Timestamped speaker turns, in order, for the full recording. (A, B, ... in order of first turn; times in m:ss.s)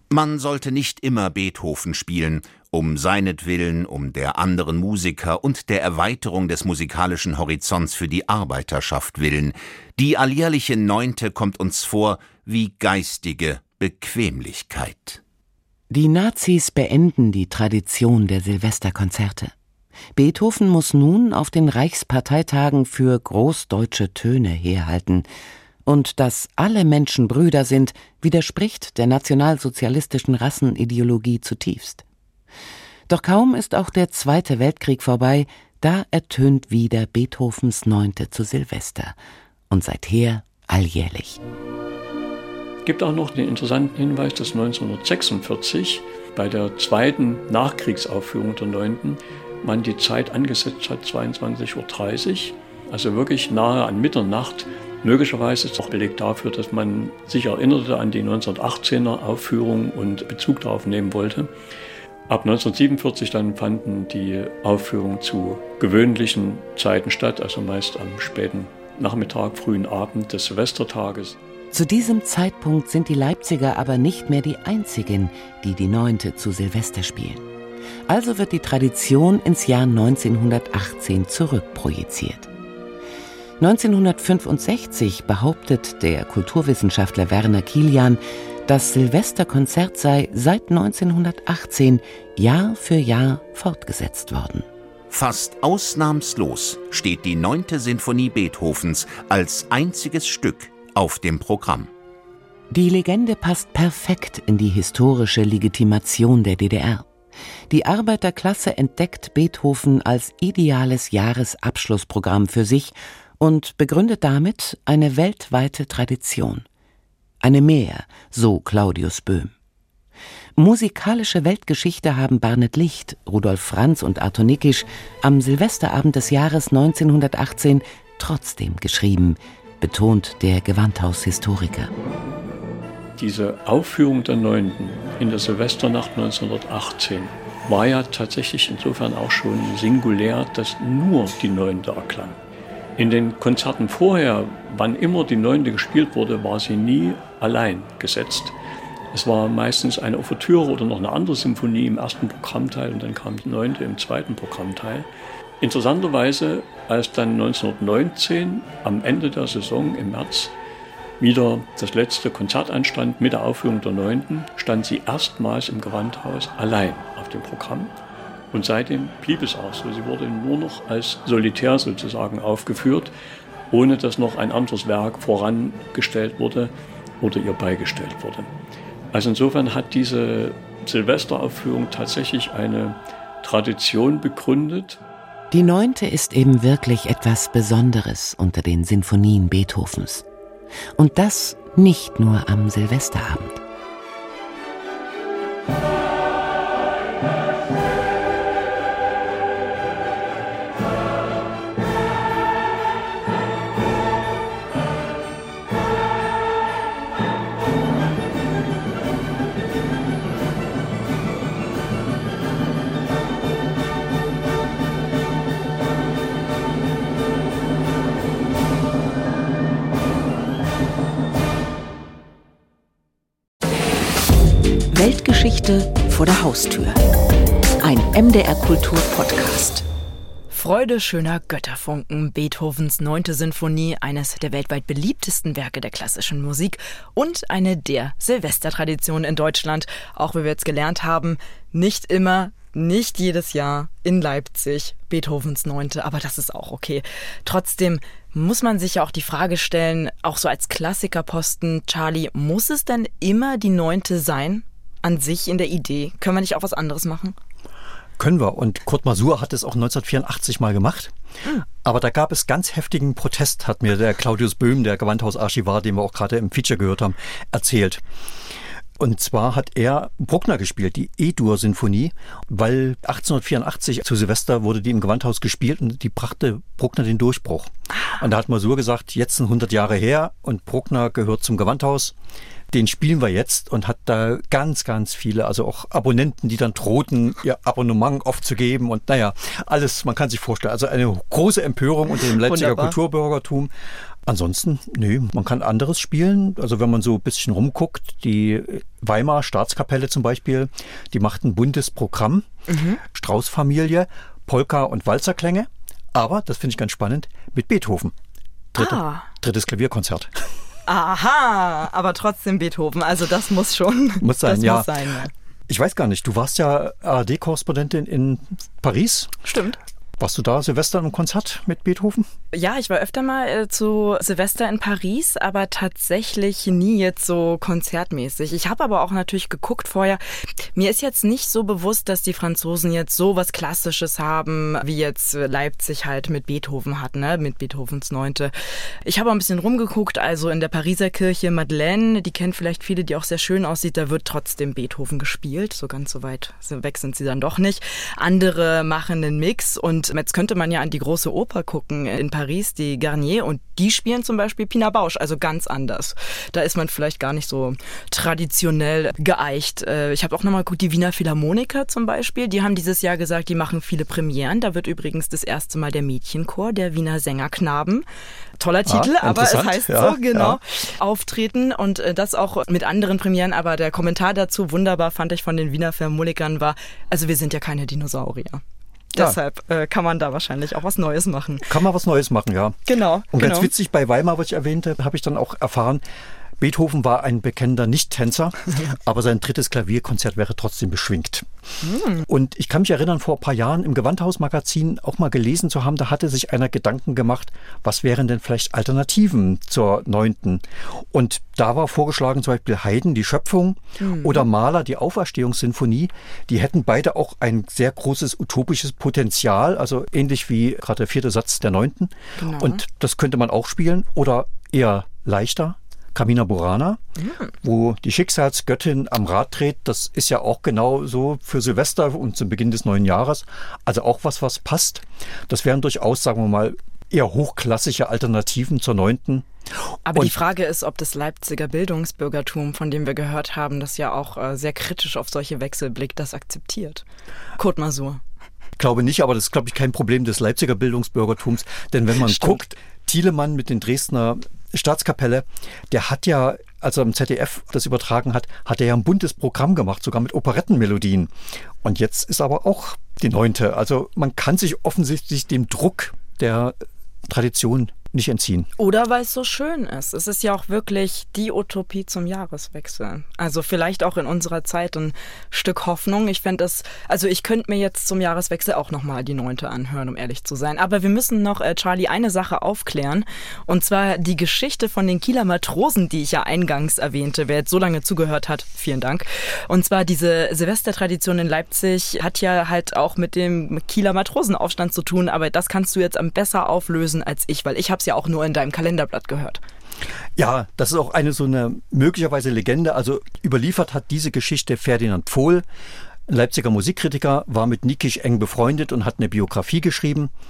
0:00.1-0:15.2 A
0:15.9-0:19.5 B
0:20.1-0:25.3 B
0:25.9-0:32.0 B
0:33.1-0:39.2 B
0:39.7-0:41.4 B
0:42.8-1:01.5 C
1:02.3-1:11.4 C
1:11.7-1:17.4 B
1:18.1-1:22.5 B
1:23.6-1:34.6 B
1:35.1-1:41.9 A
1:42.7-1:47.1 B
1:47.7-1:56.6 B
1:57.4-1:59.5 B
2:00.6-2:11.9 B
2:13.2-2:22.4 C
2:23.0-2:28.5 C
2:29.1-2:35.1 C
2:35.6-2:40.5 C
2:41.2-2:47.9 C
2:48.5-2:53.1 C
2:53.7-2:58.5 C
2:59.1-3:05.0 C
3:05.5-3:10.2 B
3:11.0-3:13.6 B
3:44.9-3:47.0 D
3:47.8-3:49.9 D
3:50.5-4:17.4 E
4:18.2-4:21.1 F
4:21.8-4:28.0 F
4:29.0-4:42.1 F
4:42.7-4:53.7 F
4:52.2-4:52.9 E
4:54.2-5:02.4 F
5:02.7-5:03.0 E
5:03.0-5:08.1 F
5:08.7-5:10.4 F
5:08.8-5:09.3 E
5:10.9-5:15.3 E
5:14.2-5:14.9 F
5:15.7-5:19.3 F
5:19.4-5:19.8 E
5:20.2-5:22.2 F
5:22.5-5:30.2 E
5:30.7-5:38.5 E
5:39.0-6:08.0 E
6:08.6-6:18.6 E
6:08.8-6:10.6 F
6:19.1-6:21.7 E
6:21.6-6:22.8 F
6:22.9-6:23.7 E
6:23.3-6:26.0 F
6:26.6-6:31.4 F
6:31.8-6:32.2 E
6:32.2-6:57.0 F
6:44.0-6:44.4 E
6:52.4-6:52.8 E
6:57.2-6:57.5 E
6:57.6-7:09.4 F
7:10.0-7:17.0 E
7:17.6-7:18.2 E
7:18.8-7:31.3 F
7:22.2-7:22.6 E
7:31.8-7:38.7 F
7:38.8-8:09.6 E
8:10.4-8:15.6 F
8:16.3-8:20.3 F